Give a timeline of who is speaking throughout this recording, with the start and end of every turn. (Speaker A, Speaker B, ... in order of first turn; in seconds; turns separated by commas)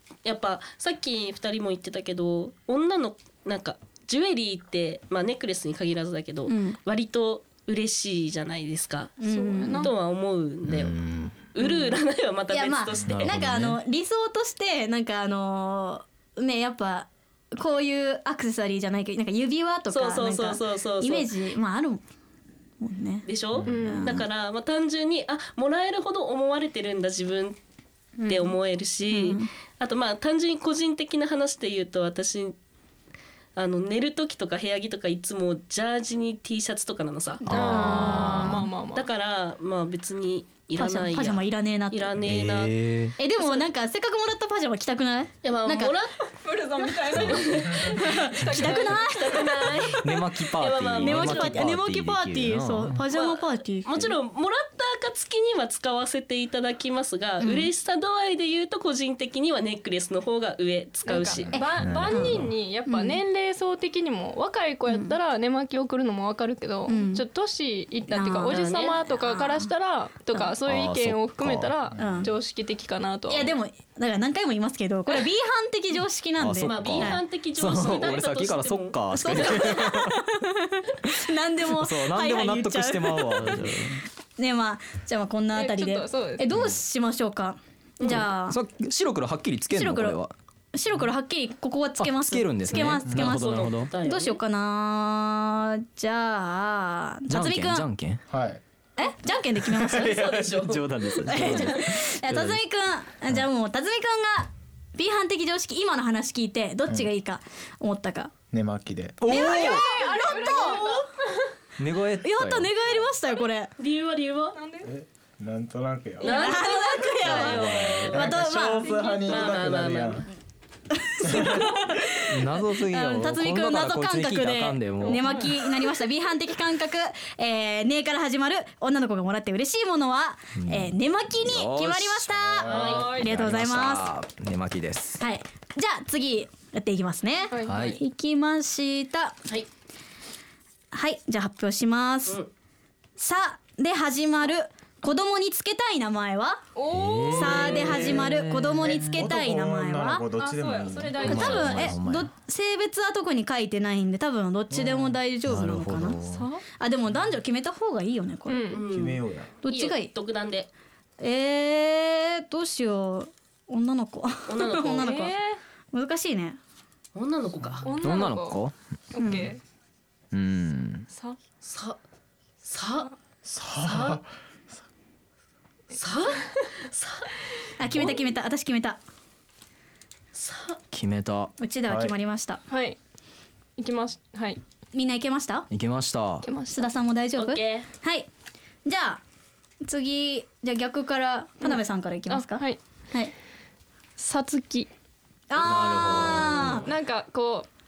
Speaker A: 0.2-9.2, Speaker B: 6.5-6.8, Speaker B: 9.2-9.9, Speaker C: 9.2-9.9, Speaker A: 9.8-11.0, Speaker D: 10.7-11.4, Speaker A: 11.5-13.3, Speaker B: 12.5-22.0, Speaker D: 13.0-13.8, Speaker A: 19.9-21.3, Speaker B: 22.8-24.2, Speaker A: 23.3-27.6, Speaker C: 23.7-24.1, Speaker B: 28.2-29.5, Speaker A: 28.3-32.6, Speaker A: 33.6-37.7, Speaker D: 37.5-38.6, Speaker C: 37.5-39.1, Speaker B: 37.5-38.6, Speaker A: 38.9-42.8, Speaker B: 40.8-42.1, Speaker D: 42.2-43.1, Speaker B: 43.2-46.0, Speaker C: 43.4-43.7, Speaker A: 45.5-46.2, Speaker C: 46.4-49.2, Speaker D: 47.1-47.4, Speaker A: 47.2-47.9, Speaker B: 47.9-49.9, Speaker A: 48.7-50.0, Speaker D: 50.0-53.0, Speaker A: 50.6-51.7, Speaker B: 51.0-54.1, Speaker A: 53.1-61.5, Speaker B: 57.4-57.7, Speaker C: 61.1-73.5, Speaker E: 61.3-62.5, Speaker B: 61.5-62.4, Speaker B: 62.9-63.2, Speaker B: 64.9-65.2, Speaker B: 66.9-67.3, Speaker B: 68.1-68.6, Speaker A: 68.5-69.0, Speaker B: 69.2-69.7, Speaker D: 70.7-71.8, Speaker E: 72.0-72.3, Speaker B: 72.0-72.3, Speaker B: 73.3-77.2, Speaker D: 76.4-80.2, Speaker A: 76.6-79.7, Speaker B: 79.2-83.7, Speaker D: 81.0-84.0, Speaker B: 84.4-88.6, Speaker C: 85.5-86.5, Speaker A: 88.0-88.3, Speaker D: 88.1-90.3, Speaker B: 89.7-90.2, Speaker B: 90.7-97.9, Speaker D: 92.0-93.9, Speaker E: 93.1-93.4, Speaker A: 93.2-94.4, Speaker D: 97.3-98.2, Speaker E: 98.3-98.6, Speaker B: 99.0-100.2, Speaker A: 99.8-100.9, Speaker D: 100.5-102.6, Speaker B: 101.3-108.3, Speaker E: 108.5-109.3, Speaker D: 109.2-109.8, Speaker B: 109.3-111.1, Speaker C: 109.5-111.5, Speaker D: 111.8-112.7, Speaker B: 112.2-113.7, Speaker A: 113.8-114.6, Speaker C: 114.5-114.9, Speaker E: 114.8-116.4, Speaker A: 116.2-118.3, Speaker B: 116.2-119.2, Speaker E: 117.2-120.3, Speaker D: 117.5-118.1, Speaker C: 118.9-119.5, Speaker A: 119.2-120.3, Speaker B: 121.0-134.1, Speaker E: 121.2-122.0, Speaker D: 122.3-125.4, Speaker C: 125.0-125.5, Speaker D: 130.6-135.2, Speaker A: 132.7-133.2, Speaker B: 135.2-139.3, Speaker C: 137.5-138.0, Speaker D: 137.7-138.0, Speaker B: 140.9-142.4, Speaker B: 143.2-146.6, Speaker C: 146.8-148.2, Speaker D: 146.9-149.2, Speaker B: 147.3-150.2, Speaker E: 147.9-148.3, Speaker E: 148.8-151.6, Speaker C: 150.4-151.9, Speaker B: 151.2-156.2, Speaker D: 151.2-152.3, Speaker E: 154.7-155.2, Speaker D: 155.4-156.5, Speaker C: 156.2-156.6, Speaker B: 156.8-158.8, Speaker C: 158.5-158.8, Speaker A: 158.7-160.7, Speaker E: 158.9-159.5, Speaker B: 159.6-160.1, Speaker B: 161.2-165.4, Speaker A: 164.5-165.1, Speaker C: 165.0-165.6, Speaker B: 165.9-166.6, Speaker A: 167.2-167.9, Speaker C: 167.8-168.6, Speaker D: 168.0-168.7, Speaker C: 169.1-169.6, Speaker B: 169.2-169.5, Speaker D: 170.3-171.1, Speaker C: 171.1-171.4, Speaker A: 171.6-172.0, Speaker A: 172.6-173.1, Speaker E: 173.4-174.3, Speaker A: 173.8-174.2, Speaker A: 175.9-177.3, Speaker B: 177.8-179.0, Speaker A: 180.3-180.8, Speaker D: 180.9-181.5, Speaker B: 181.6-182.6, Speaker E: 181.9-182.2, Speaker C: 182.7-183.0, Speaker C: 183.8-184.6, Speaker B: 184.9-185.7, Speaker D: 185.7-186.5, Speaker C: 186.4-186.9, Speaker B: 186.7-188.3, Speaker A: 187.4-187.9, Speaker B: 188.8-189.2, Speaker B: 189.8-193.3, Speaker C: 191.6-192.8, Speaker C: 194.2-194.9, Speaker B: 195.5-196.9, Speaker D: 195.6-196.9, Speaker C: 196.8-197.7